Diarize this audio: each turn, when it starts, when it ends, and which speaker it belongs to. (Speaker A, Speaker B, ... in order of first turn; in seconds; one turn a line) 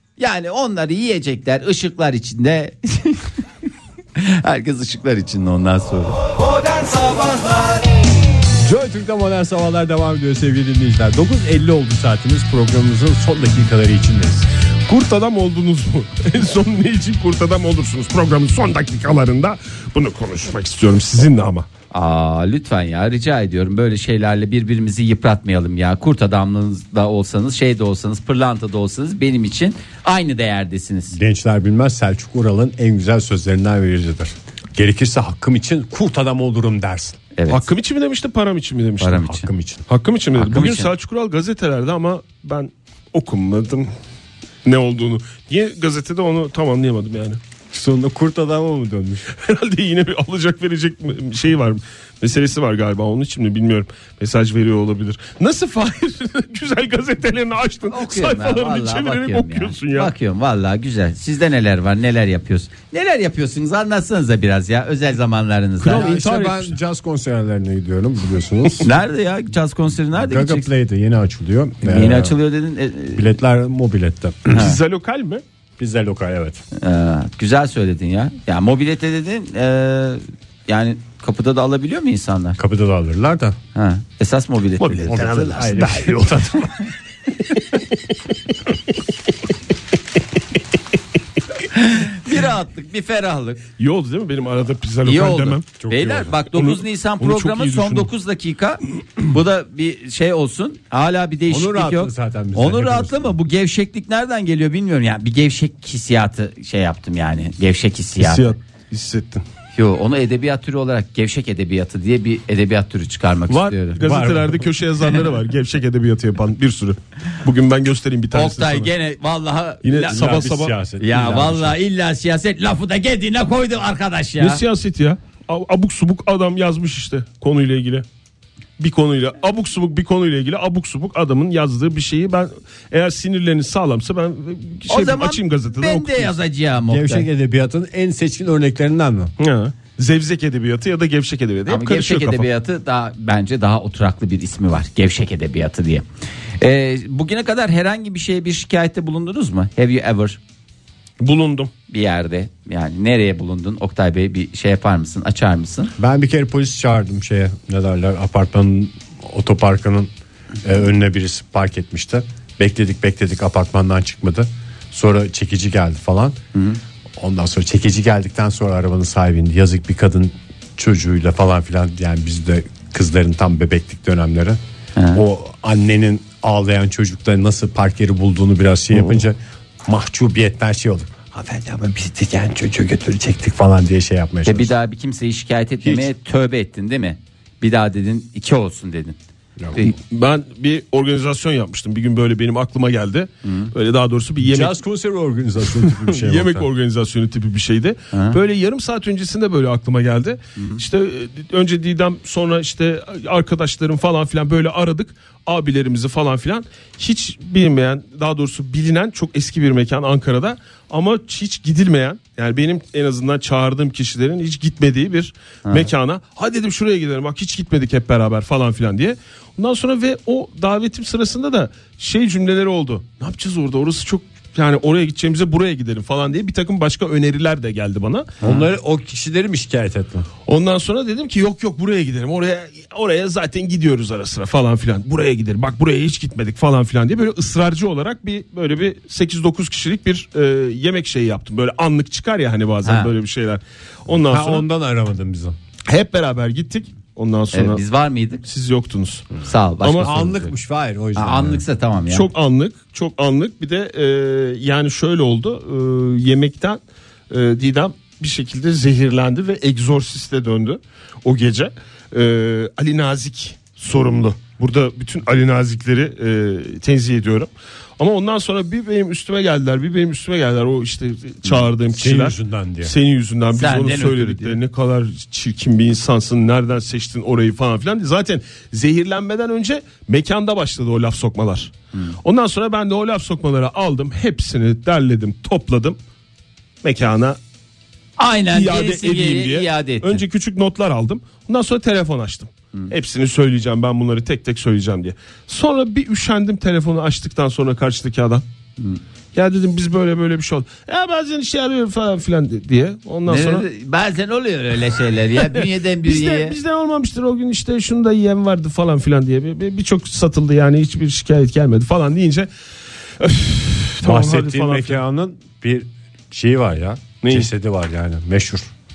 Speaker A: 0.2-3.3
Speaker A: 4.2-6.2
Speaker B: 8.6-14.5
Speaker C: 14.9-21.7
Speaker A: 21.9-31.2
Speaker B: 31.1-37.2
Speaker A: 37.4-37.7
Speaker C: 37.5-39.3
Speaker A: 39.0-39.5
Speaker B: 39.1-39.8
Speaker C: 39.9-43.9
Speaker A: 40.4-40.9
Speaker C: 44.6-47.4
Speaker B: 47.7-49.3
Speaker C: 49.3-60.1
Speaker A: 57.9-66.1
Speaker C: 65.8-66.8
Speaker B: 65.8-68.9
Speaker A: 68.8-70.7
Speaker B: 70.2-72.3
Speaker A: 71.8-73.3
Speaker B: 73.1-74.7
Speaker C: 74.5-75.4
Speaker B: 75.8-76.6
Speaker A: 76.8-82.6
Speaker B: 82.6-83.6
Speaker A: 83.7-85.8
Speaker C: 84.8-86.8
Speaker B: 85.1-86.6
Speaker A: 91.7-93.6
Speaker C: 93.8-95.7
Speaker A: 95.0-108.5
Speaker B: 95.8-96.4
Speaker C: 96.5-98.1
Speaker B: 101.5-103.3
Speaker C: 108.2-109.4
Speaker A: 109.7-114.0
Speaker C: 113.5-118.9
Speaker B: 114.0-114.6
Speaker A: 118.3-120.5
Speaker C: 119.8-120.8
Speaker B: 120.1-121.8
Speaker A: 121.0-124.6
Speaker C: 124.4-128.0
Speaker C: 128.8-136.3
Speaker A: 134.9-137.3
Speaker B: 136.9-139.3
Speaker C: 139.4-142.4
Speaker A: 141.7-146.0
Speaker A: 146.6-150.4
Speaker C: 151.2-151.7
Speaker A: 151.9-155.9
Speaker B: 156.0-160.1
Speaker B: 160.6-166.4
Speaker A: 166.5-166.8
Speaker B: 167.2-174.6
Speaker A: 174.9-175.2
Speaker B: 175.1-184.7
Speaker A: 184.4-189.2
Speaker B: 185.8-186.1
Speaker C: 189.8-194.8
Speaker A: 193.4-193.7
Speaker B: 194.4-196.7
Speaker C: 195.7-228.3
Speaker A: 198.1-198.4
Speaker A: 200.6-200.8
Speaker A: 228.4-228.7
Speaker B: 228.4-230.3
Speaker C: 230.5-244.6
Speaker A: 242.8-243.1
Speaker B: 244.1-245.6
Speaker C: 245.9-247.8
Speaker A: 247.5-248.4
Speaker C: 248.4-249.3
Speaker A: 249.4-250.5
Speaker C: 249.8-250.1
Speaker B: 250.0-251.6
Speaker A: 251.1-252.3
Speaker C: 252.1-286.0
Speaker B: 271.9-272.9
Speaker A: 273.5-274.6
Speaker C: 286.8-287.4
Speaker A: 288.2-290.2
Speaker C: 288.5-298.4
Speaker C: 299.3-303.6
Speaker A: 303.3-306.6
Speaker C: 305.4-312.5
Speaker C: 313.2-315.0
Speaker B: 314.0-318.7
Speaker C: 317.2-317.5